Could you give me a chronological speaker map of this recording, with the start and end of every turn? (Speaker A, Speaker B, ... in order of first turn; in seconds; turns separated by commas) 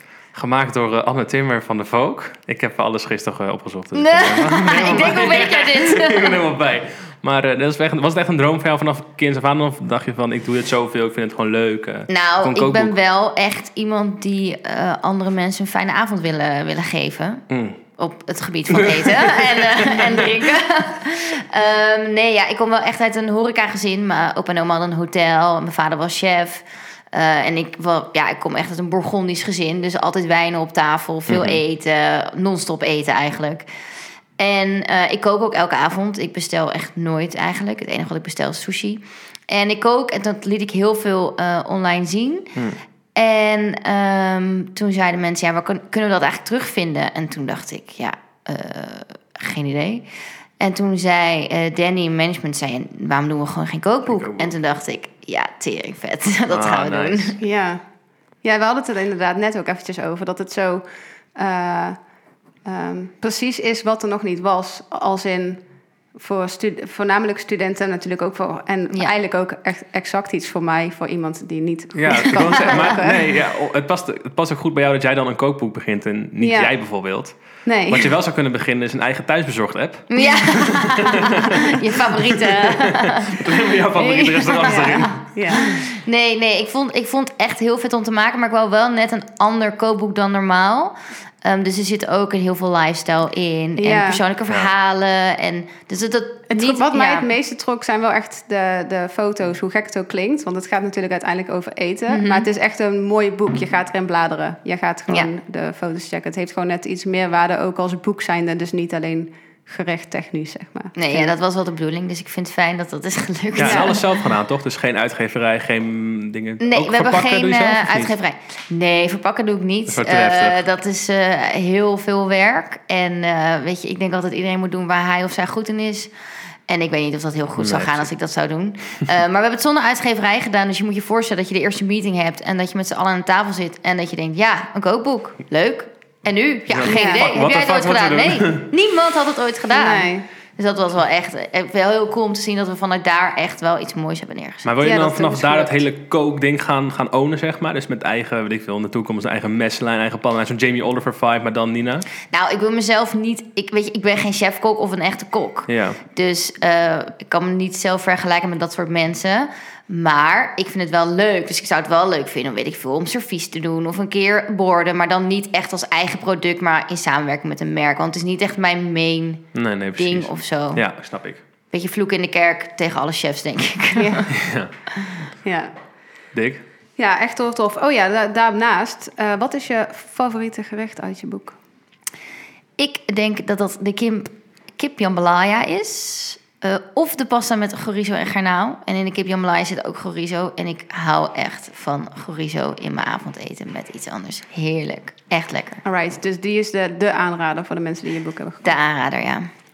Speaker A: 0.3-12.9, Speaker B: 3.9-6.4, Speaker B: 12.1-17.4, Speaker A: 17.5-17.8, Speaker B: 18.0-33.7, Speaker A: 18.7-20.4, Speaker A: 31.3-31.6, Speaker B: 34.4-42.6, Speaker B: 43.1-50.0, Speaker B: 50.6-57.4, Speaker A: 54.1-54.5, Speaker A: 56.5-57.4, Speaker C: 57.4-57.8, Speaker C: 58.4-62.0, Speaker C: 62.6-65.6, Speaker C: 66.2-73.2, Speaker A: 71.9-85.7, Speaker C: 76.4-76.7, Speaker C: 77.6-78.1, Speaker B: 80.1-97.3, Speaker C: 84.7-85.8, Speaker C: 93.8-94.2, Speaker C: 96.5-111.3, Speaker B: 102.1-102.5, Speaker B: 111.0-114.1, Speaker A: 113.6-118.1, Speaker C: 113.6-114.0, Speaker B: 116.6-126.1, Speaker A: 119.9-120.6, Speaker B: 126.7-144.7, Speaker A: 127.6-128.1, Speaker A: 136.7-138.7, Speaker C: 136.8-137.2, Speaker C: 139.7-140.2, Speaker A: 144.6-152.1, Speaker C: 144.8-145.8, Speaker B: 152.3-170.8, Speaker A: 155.7-156.0, Speaker A: 169.5-171.4, Speaker B: 171.7-174.3, Speaker C: 173.9-174.3, Speaker A: 174.3-174.7, Speaker C: 175.4-175.7, Speaker A: 176.3-176.6, Speaker C: 177.0-181.6, Speaker B: 182.8-195.8, Speaker C: 195.8-198.7, Speaker B: 198.6-199.5